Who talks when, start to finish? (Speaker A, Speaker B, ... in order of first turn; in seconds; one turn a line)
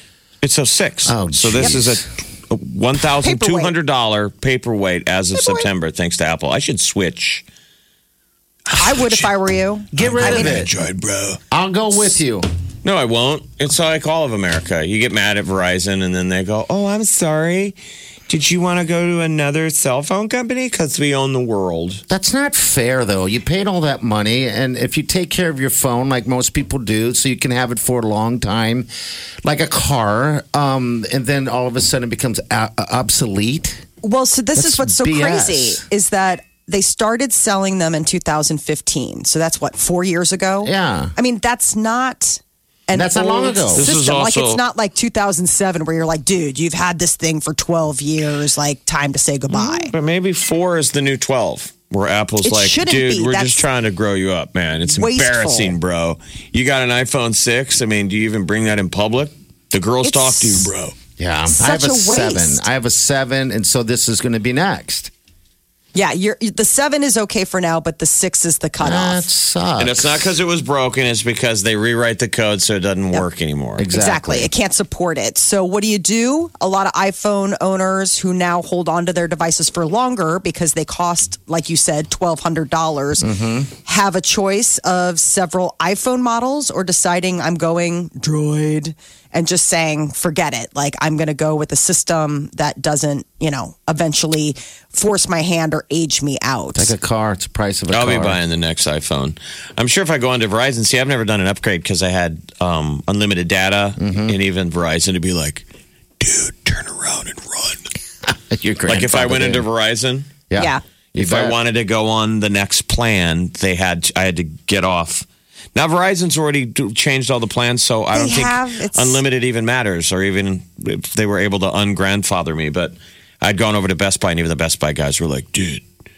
Speaker A: 0.4-7.4
Speaker B: 1.1-2.0
Speaker C: 3.2-3.7
Speaker C: 5.3-5.7
Speaker A: 8.7-9.3
Speaker C: 8.8-10.6
Speaker B: 9.9-10.7
Speaker A: 9.9-11.4
Speaker B: 11.5-12.5
Speaker A: 12.8-17.8
Speaker A: 18.3-22.0
Speaker B: 22.1-28.9
Speaker B: 29.4-33.9
Speaker C: 34.0-49.9
Speaker B: 34.5-35.8
Speaker B: 40.6-41.1
Speaker B: 42.9-43.9
Speaker A: 43.7-44.6
Speaker A: 49.5-60.9
Speaker C: 52.4-53.6
Speaker C: 54.9-55.8
Speaker C: 60.0-60.7
Speaker B: 61.2-65.1
Speaker C: 61.5-62.6
Speaker C: 65.9-69.3
Speaker B: 68.8-70.3
Speaker A: 69.8-73.9
Speaker B: 73.8-74.5
Speaker C: 73.9-83.3
Speaker B: 83.2-83.7
Speaker C: 83.8-96.9
Speaker B: 96.7-98.4
Speaker A: 97.9-105.6
Speaker B: 104.0-104.3
Speaker A: 106.2-107.8
Speaker B: 108.2-109.7
Speaker A: 108.9-110.4
Speaker B: 110.5-111.6
Speaker C: 110.6-110.8
Speaker A: 111.1-125.8
Speaker C: 118.1-119.2